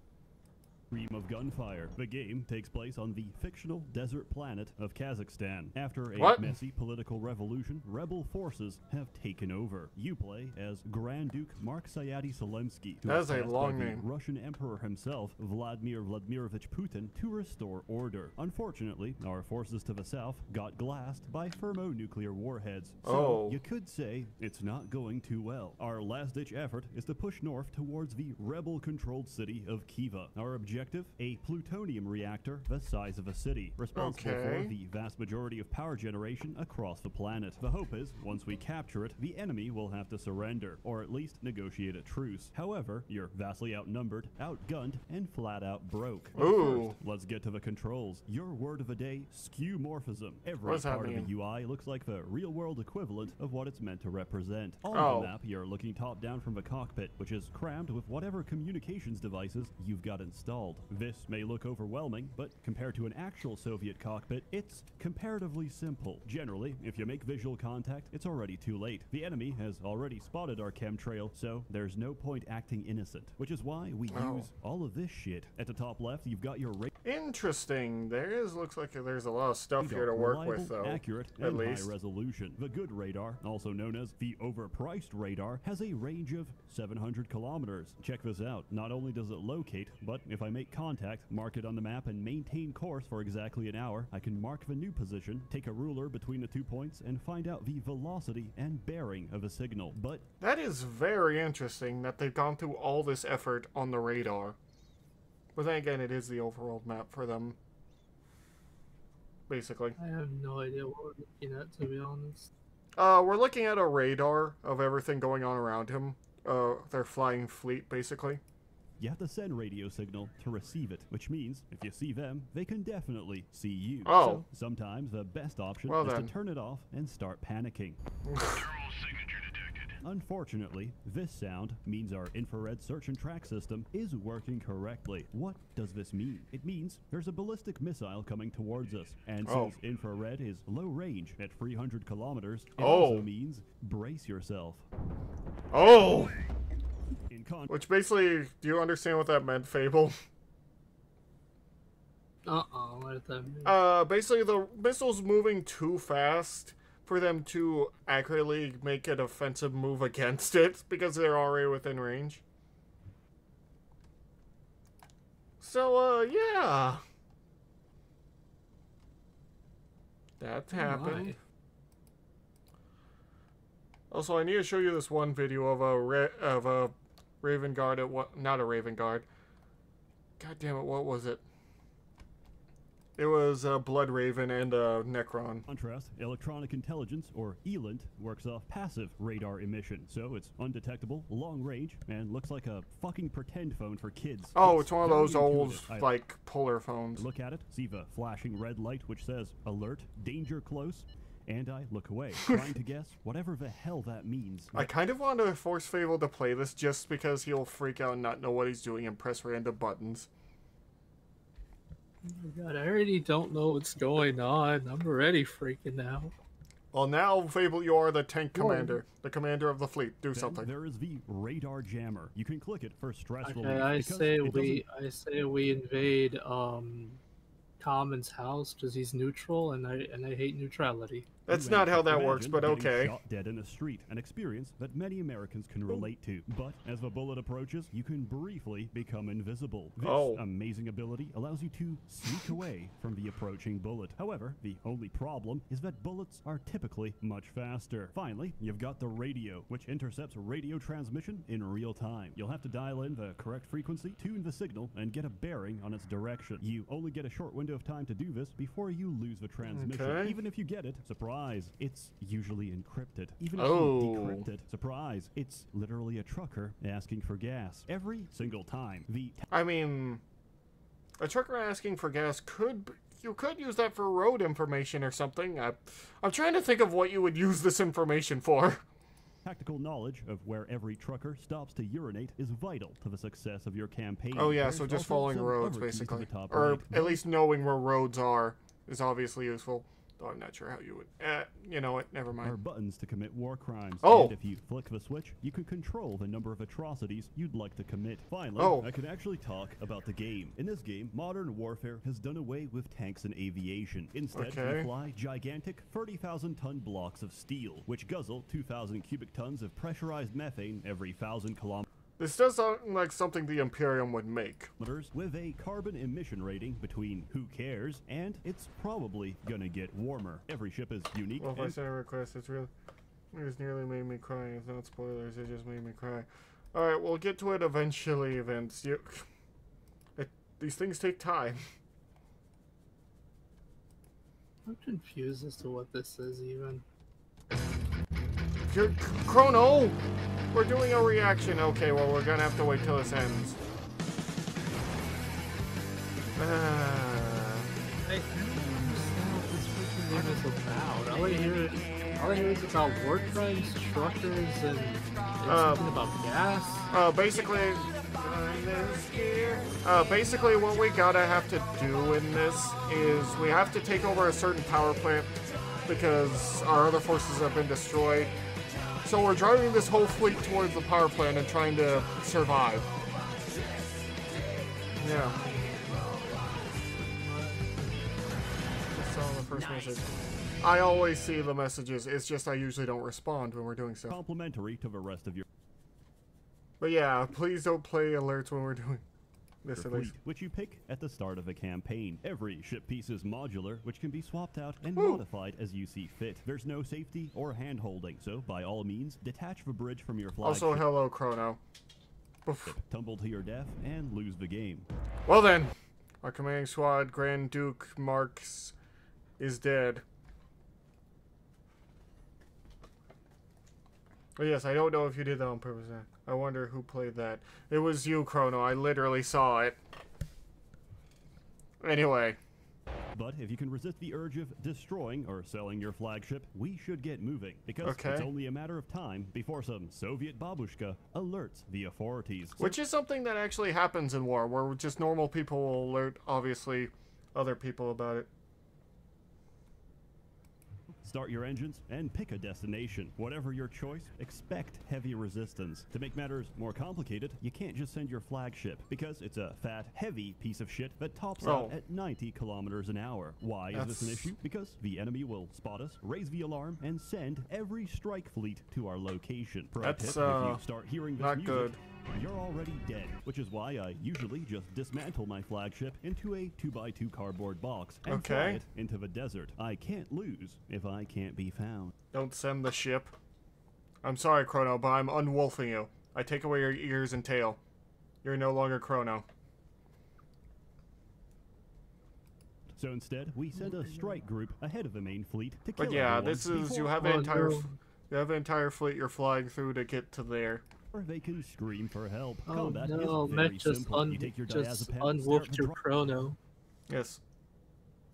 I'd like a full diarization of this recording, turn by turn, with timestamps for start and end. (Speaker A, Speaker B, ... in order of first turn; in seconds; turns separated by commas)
Speaker A: 0.9-76.9, Speaker B: 6.2-6.5, Speaker B: 13.0-14.0, Speaker B: 23.0-23.6, Speaker B: 33.9-34.7, Speaker B: 46.3-47.0, Speaker B: 50.6-51.3, Speaker B: 54.9-55.3, Speaker B: 74.1-74.5, Speaker B: 77.0-81.9, Speaker A: 79.8-100.3, Speaker B: 100.4-104.6, Speaker B: 105.5-107.5, Speaker B: 109.5-110.0, Speaker C: 110.0-112.5, Speaker B: 113.0-118.4, Speaker A: 119.0-128.0, Speaker B: 124.0-124.4, Speaker B: 125.9-126.3, Speaker B: 128.2-128.7, Speaker A: 128.8-144.8, Speaker B: 139.4-139.7, Speaker B: 142.8-143.3, Speaker B: 145.7-146.3, Speaker A: 147.3-147.7, Speaker B: 147.7-150.2, Speaker C: 152.4-153.7, Speaker B: 153.6-162.4, Speaker B: 165.6-167.0, Speaker B: 170.4-171.3, Speaker C: 170.7-171.4, Speaker B: 174.1-179.3, Speaker B: 180.4-181.4, Speaker B: 183.2-185.7, Speaker A: 185.7-196.1, Speaker B: 194.5-197.2, Speaker A: 197.2-204.9, Speaker B: 204.7-210.3, Speaker C: 212.2-216.3, Speaker B: 216.9-220.7, Speaker C: 218.5-219.0, Speaker A: 220.3-224.8, Speaker C: 223.4-227.2, Speaker C: 227.8-231.3, Speaker B: 231.5-233.1, Speaker A: 231.5-269.4, Speaker B: 240.0-240.4, Speaker B: 259.7-260.4, Speaker B: 263.6-264.4, Speaker B: 269.5-270.2, Speaker B: 271.2-278.8, Speaker A: 279.4-287.2, Speaker B: 284.3-292.6, Speaker A: 292.4-311.9, Speaker B: 294.0-294.3, Speaker B: 298.6-298.9, Speaker B: 304.3-304.9, Speaker B: 312.2-314.7, Speaker A: 314.8-321.8, Speaker B: 321.4-322.7, Speaker B: 323.3-329.3, Speaker B: 330.1-331.6, Speaker C: 334.6-336.8, Speaker B: 338.7-340.0, Speaker B: 340.5-343.6, Speaker B: 346.4-347.7, Speaker C: 348.1-356.9, Speaker B: 355.4-355.9, Speaker B: 356.9-365.4, Speaker B: 365.9-368.3, Speaker B: 369.0-372.9, Speaker B: 374.9-376.4, Speaker B: 378.9-384.2, Speaker A: 384.1-385.4, Speaker B: 386.8-389.0, Speaker B: 389.6-390.1, Speaker A: 389.7-400.9, Speaker B: 394.9-395.2, Speaker B: 400.4-401.6, Speaker B: 402.4-402.7, Speaker A: 402.6-404.9, Speaker B: 405.3-408.7, Speaker B: 409.4-410.0, Speaker B: 414.4-419.8, Speaker B: 421.8-422.4, Speaker A: 423.1-432.7, Speaker B: 427.8-428.3, Speaker B: 432.6-438.3, Speaker A: 441.0-471.9, Speaker B: 451.4-451.7, Speaker B: 453.7-454.3, Speaker B: 459.8-460.6, Speaker B: 461.2-461.8, Speaker B: 468.1-468.6, Speaker B: 472.1-473.1, Speaker B: 474.0-477.6, Speaker B: 478.2-479.2, Speaker A: 482.7-487.5, Speaker C: 483.6-484.2, Speaker B: 485.8-490.6, Speaker C: 487.0-487.8, Speaker A: 490.9-496.1, Speaker C: 492.5-496.4, Speaker B: 496.9-497.2